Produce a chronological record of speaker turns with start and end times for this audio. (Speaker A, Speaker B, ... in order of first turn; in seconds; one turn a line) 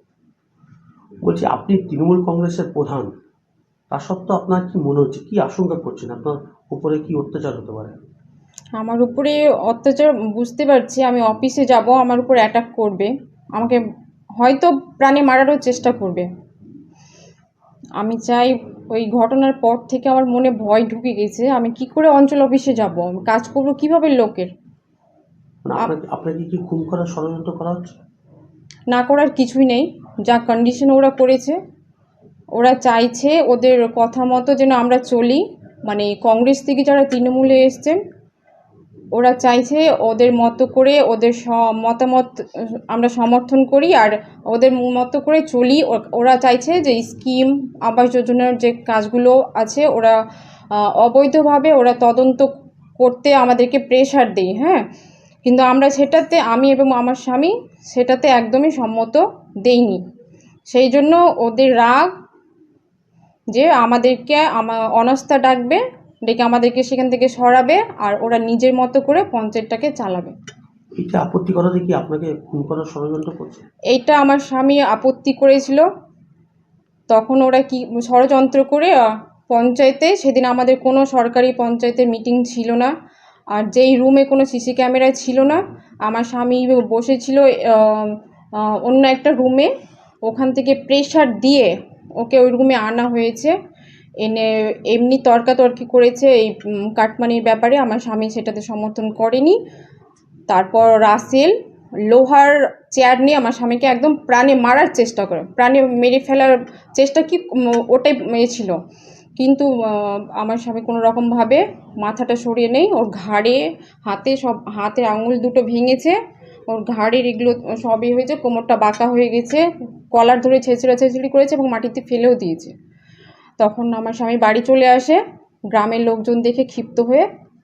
Speaker A: 1.2-3.1
Speaker A: 3.9-7.9
Speaker B: 8.8-13.8
Speaker B: 14.4-16.3
Speaker B: 18.0-24.5
Speaker A: 25.7-27.9
Speaker B: 28.9-31.6
Speaker B: 32.5-38.0
Speaker B: 39.1-42.3
Speaker B: 42.9-50.1
Speaker B: 50.7-52.5
Speaker B: 53.0-54.8
Speaker B: 55.5-60.0
Speaker B: 60.7-62.1
Speaker B: 63.5-70.3
Speaker A: 71.0-73.6
Speaker B: 73.9-75.8
Speaker B: 77.1-79.0
Speaker B: 79.5-82.9
Speaker B: 83.5-89.7
Speaker B: 90.3-93.5
Speaker B: 94.2-99.6
Speaker B: 100.5-101.5
Speaker B: 102.1-108.7
Speaker B: 109.4-116.1
Speaker B: 116.7-119.6
Speaker B: 120.1-122.7
Speaker B: 123.6-125.2
Speaker B: 125.7-127.2